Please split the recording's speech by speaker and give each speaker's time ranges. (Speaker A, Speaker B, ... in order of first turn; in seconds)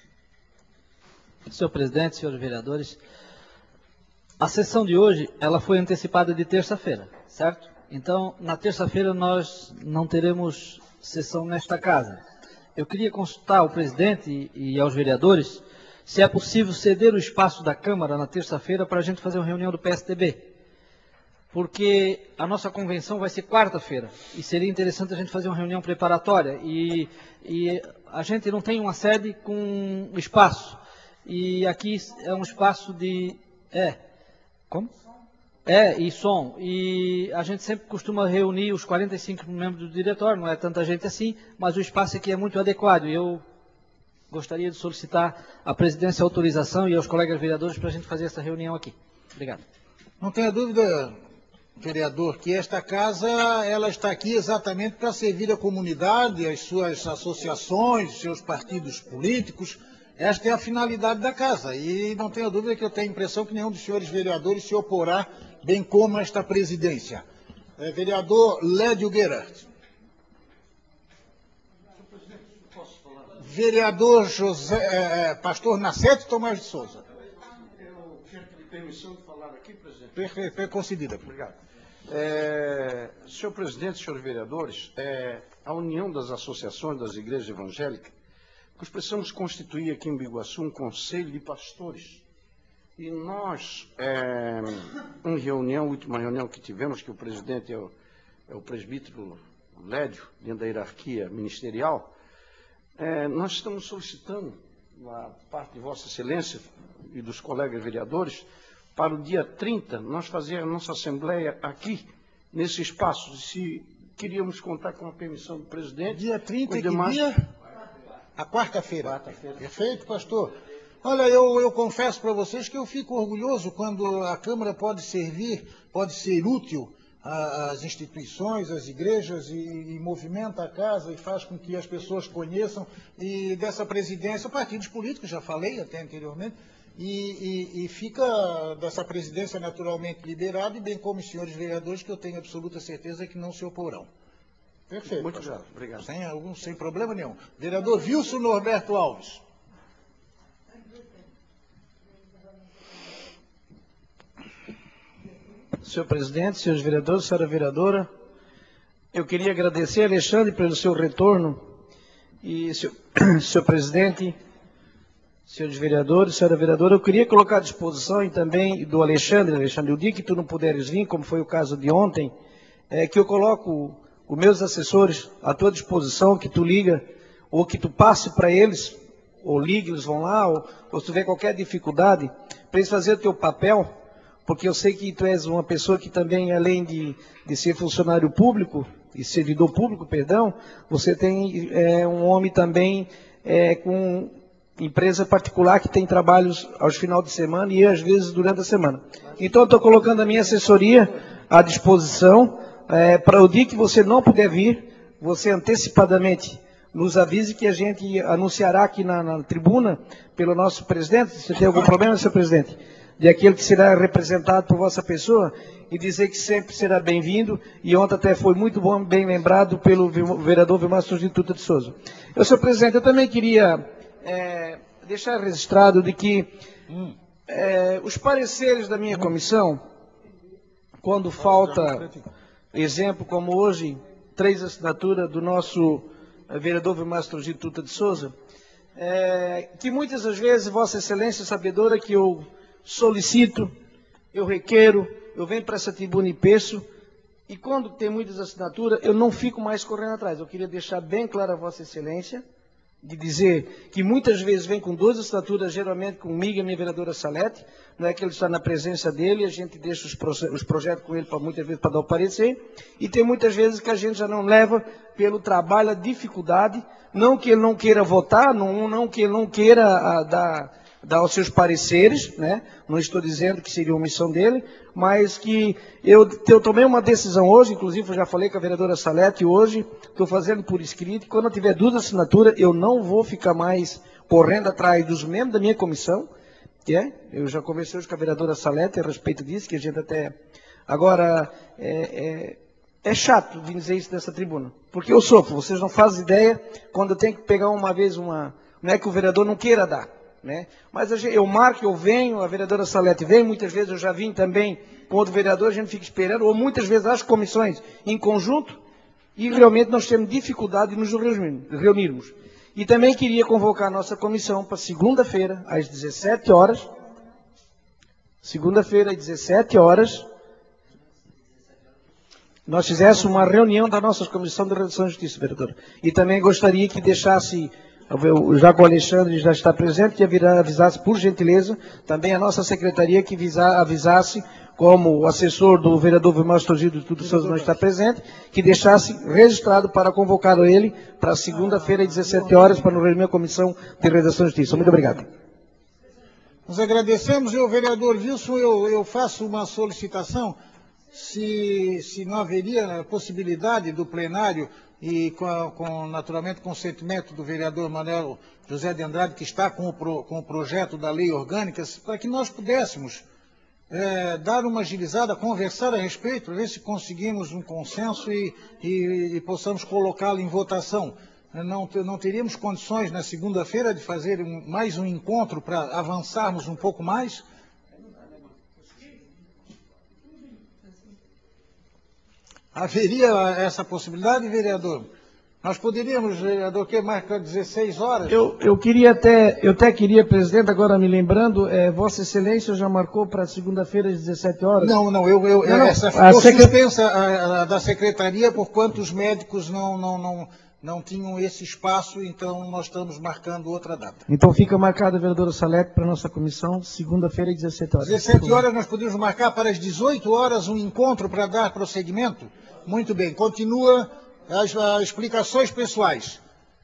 Speaker A: 1.5-3.0, 4.4-12.2, 12.8-20.5, 21.5-34.0, 35.7-43.4, 44.3-49.6
Speaker B: 50.2-51.1, 51.8-67.2, 67.8-69.7, 73.4-77.0, 80.2-81.3, 116.1-117.4, 118.4-144.1, 144.9-149.4, 226.9-227.2, 231.4-232.2, 337.2-337.8, 341.7-342.8, 346.7-350.6, 351.1-363.2, 363.9-377.4, 382.7-385.1, 385.6-388.5, 394.8-404.2, 408.0-416.4
Speaker C: 72.8-73.3, 77.8-80.1, 81.2-81.6, 82.1-88.1, 88.8-92.2, 93.0-97.9, 98.5-102.1, 103.0-117.2, 119.0-119.6, 145.1-146.1
Speaker D: 155.8-158.1, 159.1-161.6, 162.4-164.4, 165.5-172.3, 172.9-183.9, 184.5-226.5, 227.5-229.8, 231.0-232.1, 232.7-238.3, 239.0-243.7, 244.3-246.8, 247.5-252.4, 253.0-286.3, 286.9-290.4, 290.9-308.8, 309.4-316.9, 318.4-320.3, 322.7-345.3, 388.3-394.9, 395.6-396.7, 404.3-408.6